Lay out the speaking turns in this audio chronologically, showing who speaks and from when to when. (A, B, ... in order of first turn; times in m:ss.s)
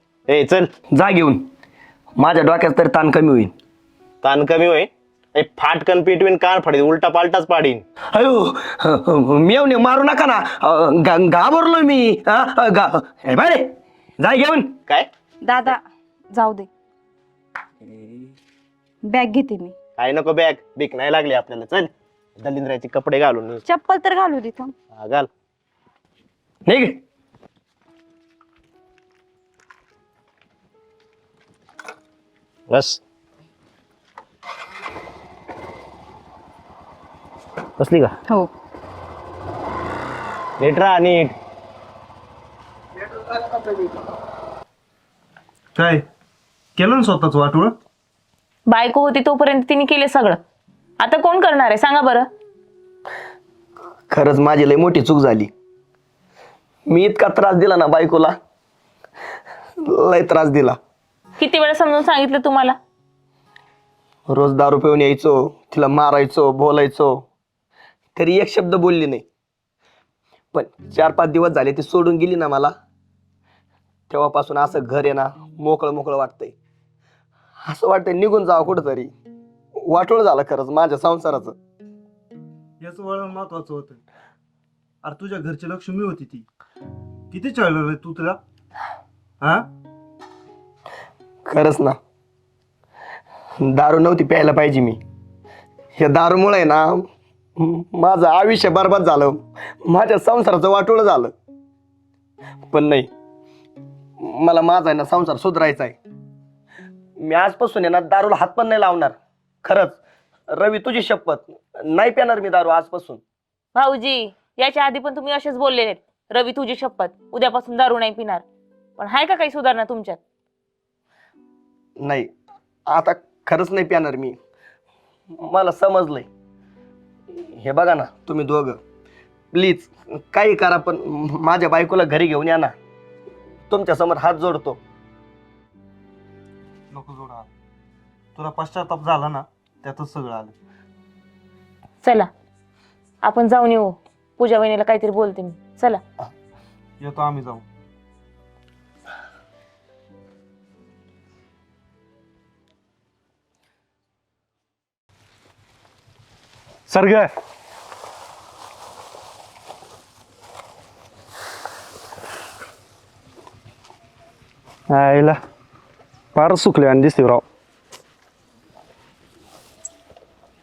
0:00.3-0:00.7 A
0:00.9-0:01.5 B
0:02.2-0:03.5 B
0:04.2-0:07.8 A
0:08.1-0:14.8 B
0:15.4-0:15.8 C
0:16.3-0:16.7 C
0:17.8-0:18.3 B
0:19.1-0:19.8 C
0:20.0-0:23.6 A
0:23.7-0:24.7 C
0:24.9-0:25.3 A
0:26.7-0:27.0 B
0:32.7-0:33.0 A
0:37.8-0:38.1 A
0:40.6-0:41.4 A
0:43.1-0:43.9 B
0:45.8-0:46.0 D
0:46.8-0:47.8 D
0:48.7-0:50.4 E
0:51.0-0:52.3 E
0:54.1-0:55.5 B
0:56.9-0:58.4 B
0:59.8-1:00.8 B
1:01.4-1:02.8 E
1:04.3-1:07.3 B
1:08.2-1:09.3 B
1:10.5-1:12.7 B
1:14.1-1:16.6 B
1:17.6-1:19.1 B
1:19.8-1:21.6 B
1:22.8-1:24.0 D
1:25.0-1:26.4 D
1:27.3-1:28.4 D
1:29.4-1:29.7 D
1:31.4-1:32.0 B
1:33.6-1:35.0 B
1:36.0-1:41.3 B
1:42.7-1:43.1 B
1:44.2-1:46.0 B
1:47.2-1:50.0 B
1:50.5-1:53.2 B
1:53.8-1:58.4 E
1:59.0-2:00.2 E
2:02.0-2:02.3 B
2:02.9-2:04.4 B
2:05.3-2:06.3 B
2:07.3-2:08.8 B
2:09.5-2:12.8 B
2:13.7-2:14.8 B
2:16.9-2:17.5 D
2:18.4-2:20.5 D
2:22.0-2:22.3 E
2:23.2-2:26.0 E
2:27.0-2:27.6 D
2:36.9-2:37.3 D
2:44.9-2:45.4 D
2:46.3-2:47.4 D